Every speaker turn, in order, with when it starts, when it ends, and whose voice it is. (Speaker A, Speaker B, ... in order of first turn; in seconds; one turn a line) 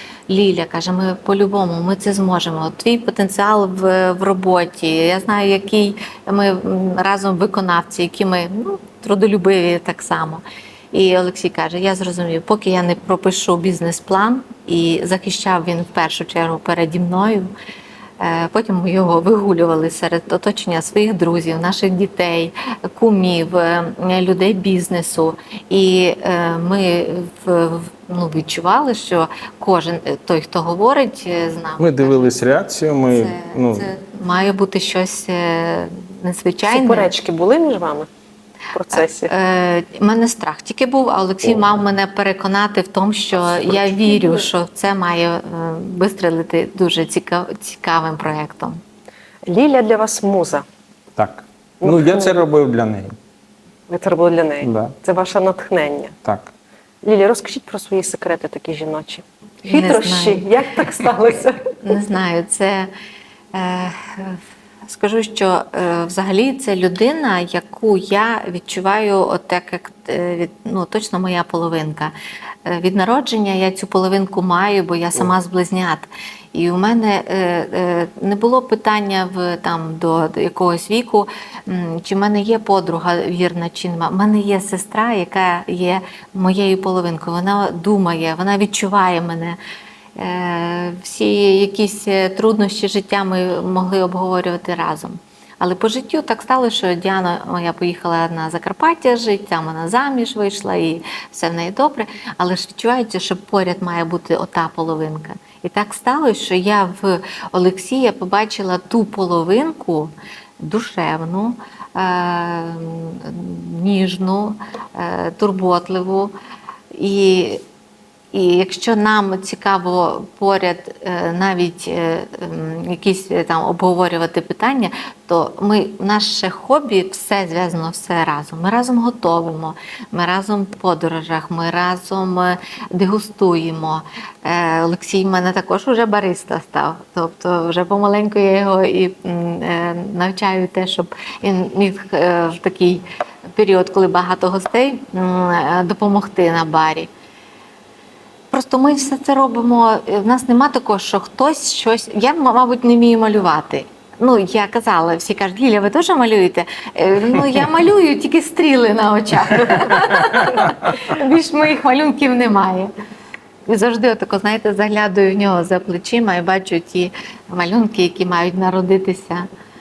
Speaker A: 0.3-17.5
Speaker A: 18.2-32.3
Speaker B: 31.8-33.9
Speaker A: 33.1-37.1
Speaker C: 36.7-38.1
Speaker C: 38.7-39.3
Speaker A: 38.9-48.8
Speaker C: 43.9-44.5
Speaker C: 49.5-50.6
Speaker B: 51.1-53.1
Speaker C: 51.8-52.4
Speaker C: 53.9-56.1
Speaker B: 54.6-54.9
Speaker B: 56.2-56.5
Speaker C: 57.0-61.6
Speaker A: 59.7-60.5
Speaker A: 61.8-62.9
Speaker A: 63.5-72.1
Speaker A: 72.7-89.6
Speaker A: 90.2-116.3
Speaker A: 116.9-117.6
Speaker A: 118.3-147.1
Speaker A: 148.5-162.9
Speaker A: 163.7-169.5